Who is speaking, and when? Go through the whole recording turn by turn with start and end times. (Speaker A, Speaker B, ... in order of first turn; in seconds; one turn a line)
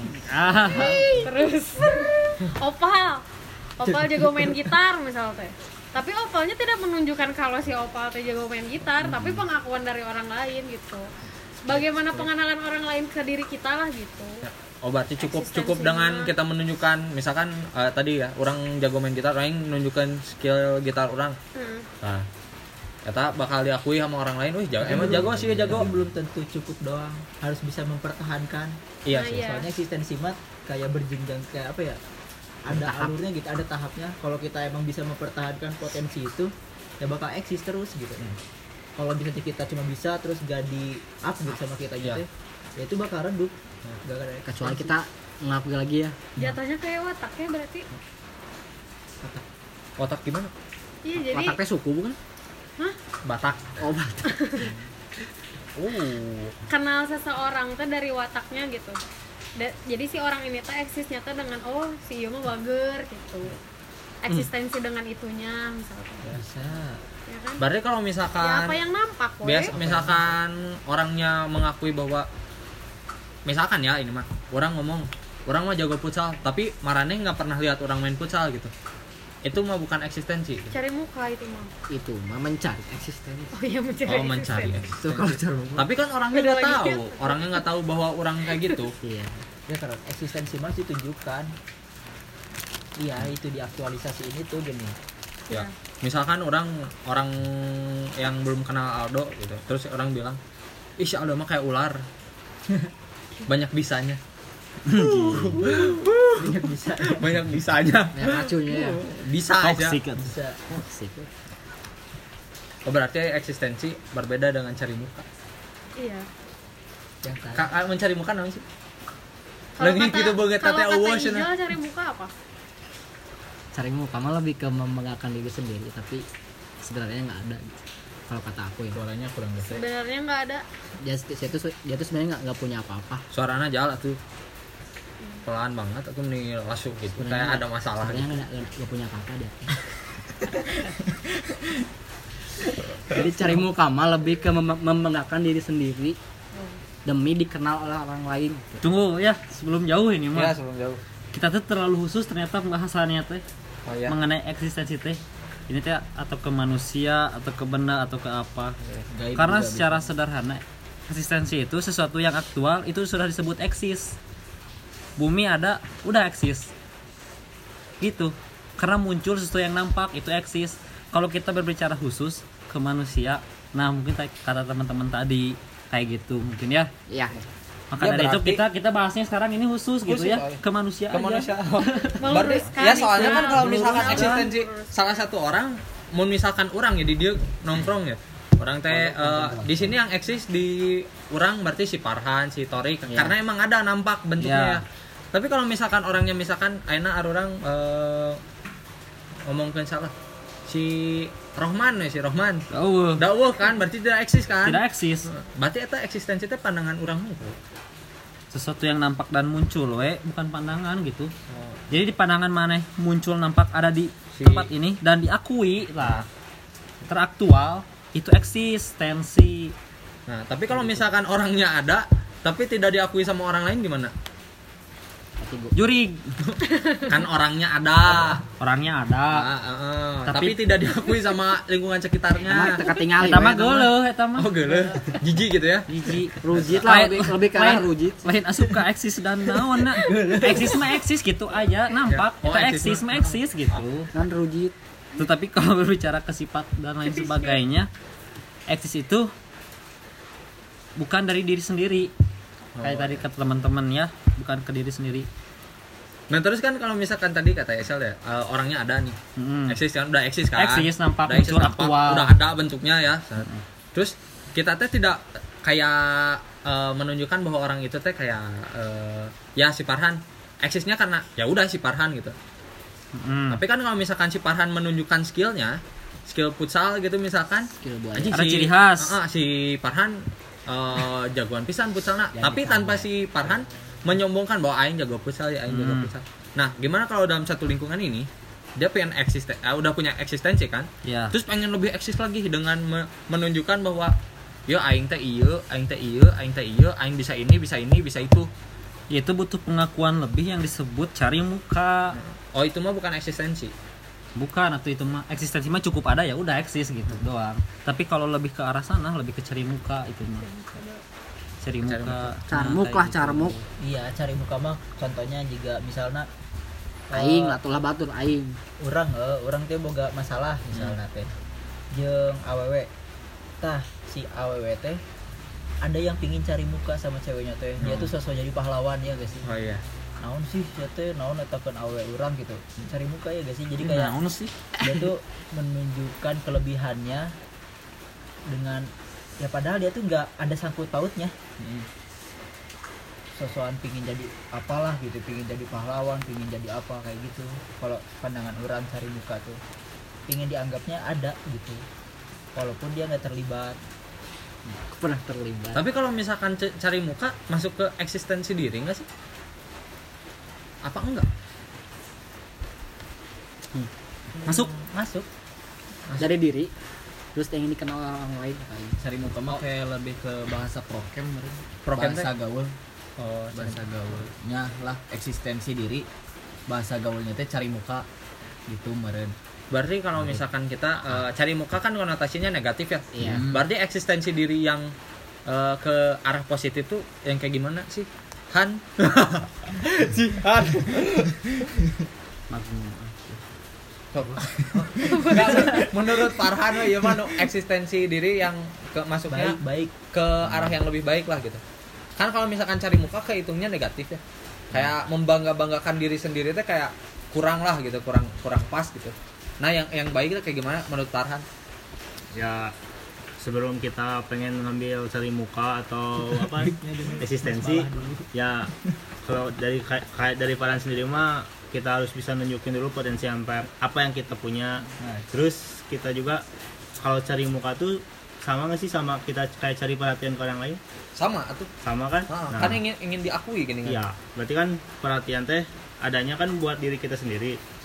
Speaker A: 0.3-1.3
Speaker B: 0.7-3.2
Speaker B: 3.8-11.1
Speaker C: 9.1-9.4
Speaker B: 11.6-14.5
Speaker C: 14.4-21.4
Speaker B: 15.2-16.3
Speaker B: 21.6-21.9
Speaker C: 22.0-22.3
Speaker C: 23.1-25.9
Speaker D: 24.8-28.8
Speaker C: 29.1-29.5
Speaker B: 29.1-29.7
Speaker D: 29.4-32.0
Speaker D: 32.7-38.2
Speaker E: 32.7-33.1
Speaker D: 39.0-44.9
Speaker E: 44.5-46.3
Speaker B: 46.4-47.9
Speaker C: 50.0-50.5
Speaker B: 51.1-51.6
Speaker E: 51.3-52.2
Speaker C: 53.2-53.7
Speaker E: 53.8-54.3
Speaker B: 54.3-54.7
Speaker C: 55.8-56.5
Speaker B: 56.7-59.0
Speaker B: 59.6-63.6
Speaker B: 64.2-66.4
Speaker D: 66.2-67.0
Speaker B: 67.3-67.7
Speaker C: 67.6-68.8
Speaker B: 68.4-69.8
Speaker C: 69.4-72.3
Speaker D: 69.8-70.1
Speaker C: 73.5-78.7
Speaker C: 79.4-80.7
Speaker B: 80.7-81.7
Speaker E: 81.9-83.5
Speaker B: 83.5-84.9
Speaker C: 84.1-89.0
Speaker E: 84.9-85.9
Speaker B: 86.3-87.7
Speaker E: 89.0-89.5
Speaker D: 89.7-91.5
Speaker D: 93.0-95.0
Speaker C: 95.5-100.4
Speaker C: 101.0-102.0
Speaker C: 103.5-104.2
Speaker C: 105.0-106.6
Speaker E: 105.0-105.5
Speaker D: 105.3-105.8
Speaker D: 106.3-107.4
Speaker C: 107.1-110.0
Speaker E: 108.2-109.1
Speaker A: 109.6-110.2
Speaker D: 110.2-110.6
Speaker E: 110.7-111.3
Speaker C: 112.9-115.3
Speaker B: 116.0-116.3
Speaker D: 117.2-117.7
Speaker C: 117.5-118.7
Speaker B: 119.8-122.3
Speaker C: 119.8-121.5
Speaker E: 123.7-126.2
Speaker E: 126.8-129.0
Speaker F: 128.9-129.8
Speaker B: 129.6-130.6
Speaker E: 131.0-133.2
Speaker C: 133.3-134.2
Speaker C: 135.5-138.4
Speaker E: 137.2-139.7
Speaker E: 143.1-146.2
Speaker E: 147.1-148.8
Speaker A: 148.8-150.6
Speaker C: 150.3-151.0
Speaker A: 151.3-153.4
Speaker C: 153.9-154.2
Speaker A: 154.1-158.8
Speaker F: 159.1-160.1
Speaker A: 159.4-164.2
Speaker A: 165.2-166.7
Speaker A: 168.0-176.9
Speaker E: 177.1-177.5
Speaker A: 177.9-182.2
Speaker C: 178.0-178.6
Speaker C: 180.1-180.6
Speaker C: 181.1-198.4
Speaker B: 182.2-185.3
Speaker A: 183.0-184.5
Speaker E: 188.9-189.9
Speaker A: 194.4-194.8
Speaker C: 199.5-200.1
Speaker C: 200.7-202.6
Speaker A: 202.7-203.2
Speaker C: 203.2-207.6
Speaker A: 204.7-205.3
Speaker A: 208.5-211.3
Speaker C: 211.5-211.8
Speaker A: 211.9-216.3
Speaker C: 214.4-214.7
Speaker A: 217.1-219.7
Speaker C: 220.3-224.1
Speaker E: 225.4-225.8
Speaker A: 225.8-226.4
Speaker B: 226.7-227.1
Speaker C: 227.1-228.4
Speaker A: 228.6-229.5
Speaker C: 229.3-232.8
Speaker A: 230.3-230.6
Speaker E: 232.5-233.9
Speaker A: 233.2-234.5
Speaker C: 234.4-235.9
Speaker A: 235.9-244.1
Speaker E: 236.4-238.3
Speaker D: 240.1-240.8
Speaker C: 242.1-243.8
Speaker E: 244.1-244.8
Speaker A: 245.2-247.9
Speaker B: 247.2-247.5
Speaker A: 248.7-249.3
Speaker A: 251.0-252.1
Speaker C: 252.8-253.2
Speaker A: 252.8-255.3
Speaker C: 256.3-259.2
Speaker A: 259.4-259.8
Speaker C: 259.7-272.4
Speaker A: 260.6-262.3
Speaker A: 273.2-273.6
Speaker C: 273.5-294.1
Speaker E: 277.8-278.4
Speaker A: 278.3-279.2
Speaker E: 282.4-283.0
Speaker A: 285.7-286.1
Speaker A: 291.1-291.3
Speaker C: 294.7-298.5
Speaker A: 299.1-302.2
Speaker C: 302.1-303.7
Speaker A: 304.4-310.5
Speaker B: 310.4-311.0
Speaker A: 311.6-313.6
Speaker C: 311.8-312.4
Speaker E: 312.5-313.6
Speaker D: 313.8-316.3
Speaker D: 317.1-317.6
Speaker E: 317.1-318.6
Speaker D: 318.8-321.3
Speaker D: 321.9-322.9
Speaker D: 323.6-325.0
Speaker D: 325.8-329.5
Speaker C: 327.8-328.1
Speaker C: 329.4-329.8
Speaker D: 330.2-334.2
Speaker A: 333.8-334.5
Speaker D: 334.8-337.3
Speaker D: 338.5-341.8
Speaker D: 343.4-349.6
Speaker D: 350.3-351.8
Speaker D: 352.6-353.8
Speaker E: 354.7-355.8
Speaker C: 355.8-359.1
Speaker C: 360.8-361.3
Speaker A: 364.5-364.7
Speaker D: 364.9-365.2
Speaker E: 366.2-366.7
Speaker E: 367.4-369.0
Speaker F: 369.0-372.7
Speaker C: 371.9-372.3
Speaker C: 373.2-374.2
Speaker F: 373.5-376.1
Speaker F: 376.7-378.1
Speaker F: 378.7-379.3
Speaker C: 379.7-384.9
Speaker E: 383.1-383.5
Speaker F: 383.2-383.6
Speaker C: 385.5-391.7
Speaker E: 392.5-393.4
Speaker C: 394.1-399.6
Speaker B: 395.1-395.8
Speaker D: 399.3-399.9
Speaker C: 400.1-401.6
Speaker C: 402.2-404.2
Speaker C: 404.7-411.4
Speaker G: 412.3-412.7
Speaker G: 413.4-418.7
Speaker D: 416.6-418.3
Speaker G: 419.2-426.4
Speaker D: 425.0-425.3
Speaker G: 427.0-430.8
Speaker C: 431.2-431.7
Speaker G: 431.8-432.8
Speaker C: 432.3-434.0
Speaker G: 433.9-437.6